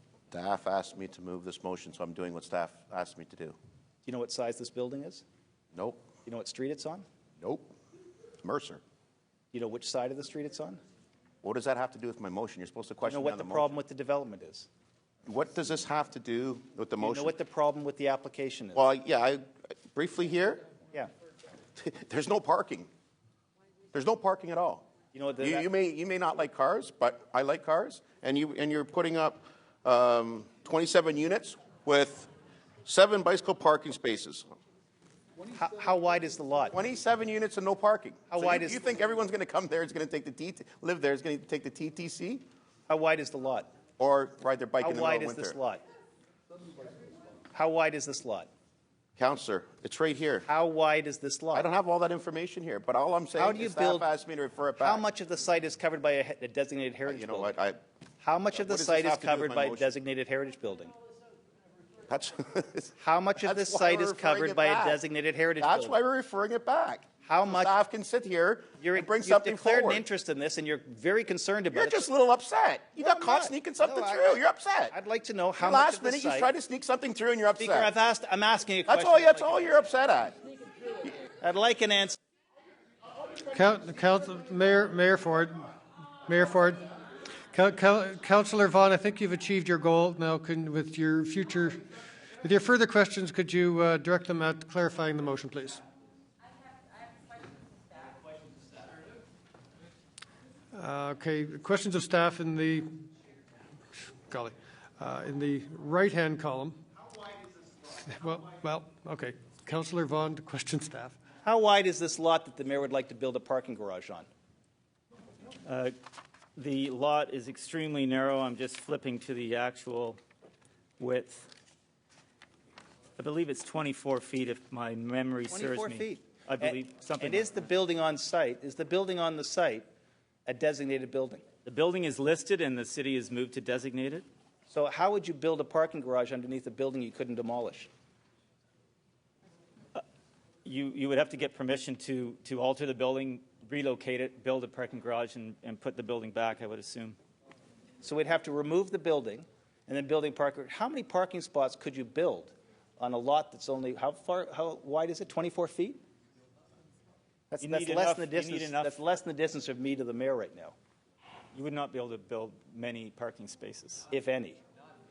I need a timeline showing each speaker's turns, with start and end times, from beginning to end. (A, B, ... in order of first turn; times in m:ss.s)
0:00.3-0:03.6 A
0:04.0-0:05.2 B
0:05.7-0:06.1 A
0:06.2-0:07.1 B
0:07.4-0:07.7 A
0:08.4-0:08.8 A
0:09.5-0:10.8 B
0:11.4-0:13.8 A
0:13.1-0:14.7 B
0:15.2-0:17.3 A
0:17.0-0:18.9 B
0:18.8-0:20.6 A
0:21.8-0:22.9 A
0:23.9-0:24.9 A
0:25.1-0:25.7 B
0:25.4-0:32.3 A
0:32.8-0:34.5 A
0:35.5-0:36.8 B
0:36.7-0:42.4 A
0:38.3-0:38.8 B
0:42.9-0:43.7 B
0:44.0-0:45.6 A
0:44.8-0:45.8 B
0:47.5-0:48.5 B
0:49.2-0:50.5 A
0:50.5-0:51.7 B
0:51.5-0:55.1 A
0:53.4-0:54.1 B
0:54.8-0:57.5 B
0:57.1-0:57.8 A
0:58.2-1:00.9 B
0:58.5-0:59.9 A
1:02.1-1:05.0 A
1:03.0-1:06.0 B
1:05.6-1:10.0 A
1:07.2-1:07.8 B
1:08.8-1:12.1 B
1:11.7-1:14.9 A
1:13.0-1:16.5 B
1:15.6-1:17.9 A
1:17.6-1:19.8 B
1:18.8-1:20.4 A
1:21.4-1:22.2 B
1:23.5-1:25.7 C
1:26.2-1:26.8 C
1:27.5-1:31.8 C
1:32.4-1:35.8 C
1:40.7-1:42.9 C
1:44.3-1:46.8 C
1:48.0-1:51.2 C
1:51.4-1:54.3 B
1:55.7-1:55.9 D
1:56.6-2:00.2 D
2:01.0-2:01.5 D
2:03.2-2:07.6 D
2:05.5-2:09.9 B
2:10.5-2:11.4 B
2:11.6-2:14.2 D
2:14.7-2:17.9 B
2:20.6-2:27.2 D
2:28.0-2:36.0 B
2:37.5-2:40.7 B
2:37.6-2:39.0 D
2:41.5-2:44.1 D
2:44.1-2:44.6 B